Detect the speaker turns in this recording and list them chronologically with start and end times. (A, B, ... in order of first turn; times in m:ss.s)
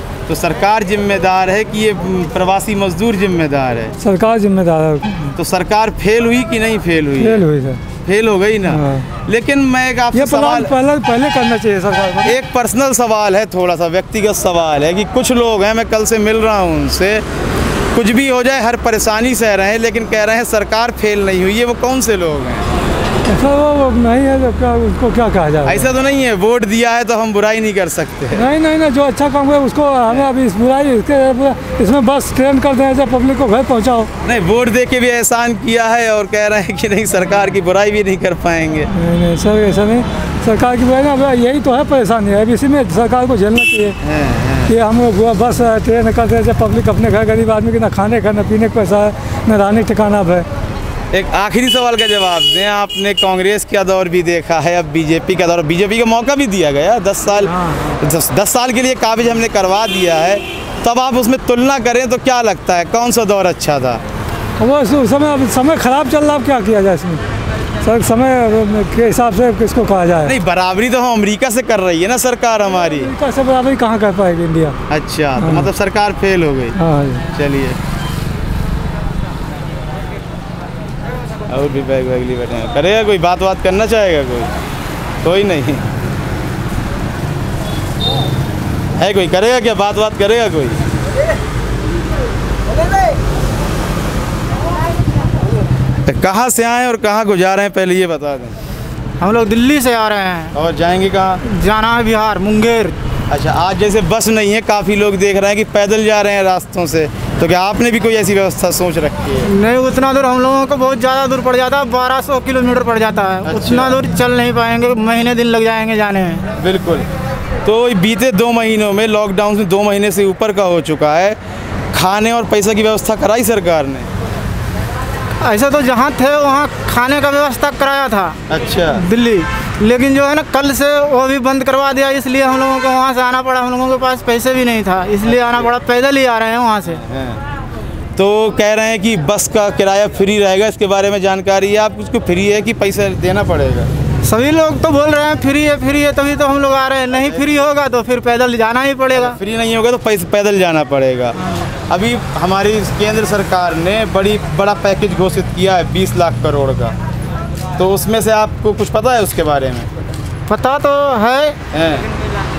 0:00.3-0:03.9 A
0:04.0-0:05.3 B
0:05.4-0:07.4 A
0:07.2-0:07.8 B
0:08.0-0:10.7 A
0:08.6-0:09.1 B
0:10.1-0:12.4 B
0:12.2-0:17.2 A
0:17.9-0:22.7 A
0:23.3-0:25.9 B
0:25.6-0:28.4 A
0:28.3-0:34.1 B
0:34.2-0:38.9 A
0:38.9-0:44.0 B
0:44.0-0:44.7 A
0:44.7-0:50.4 B
0:51.1-1:04.0 A
0:57.4-0:58.0 B
1:04.6-1:07.2 B
1:07.8-1:10.3 B
1:10.2-1:13.1 A
1:12.8-1:14.8 B
1:14.9-1:16.8 A
1:15.4-1:15.7 B
1:16.7-1:17.2 B
1:17.3-1:17.8 A
1:21.5-1:24.5 A
1:25.2-1:25.8 A
1:29.0-1:30.8 A
1:36.0-1:38.5 A
1:39.2-1:40.5 C
1:40.5-1:41.4 A
1:41.4-1:42.9 C
1:43.3-1:49.5 A
1:49.4-1:56.4 C
1:53.4-1:54.0 A
1:56.6-1:57.0 A
1:57.6-2:01.4 A
2:01.9-2:04.1 A
2:05.4-2:08.4 C
2:08.5-2:09.0 A
2:08.9-2:17.0 C
2:15.3-2:15.6 A
2:17.0-2:17.4 A
2:18.2-2:23.9 A
2:24.2-2:29.4 C
2:27.3-2:27.6 A
2:29.1-2:31.4 A
2:31.9-2:36.9 A
2:37.8-2:39.9 A
2:40.5-2:41.6 C
2:41.7-2:42.1 A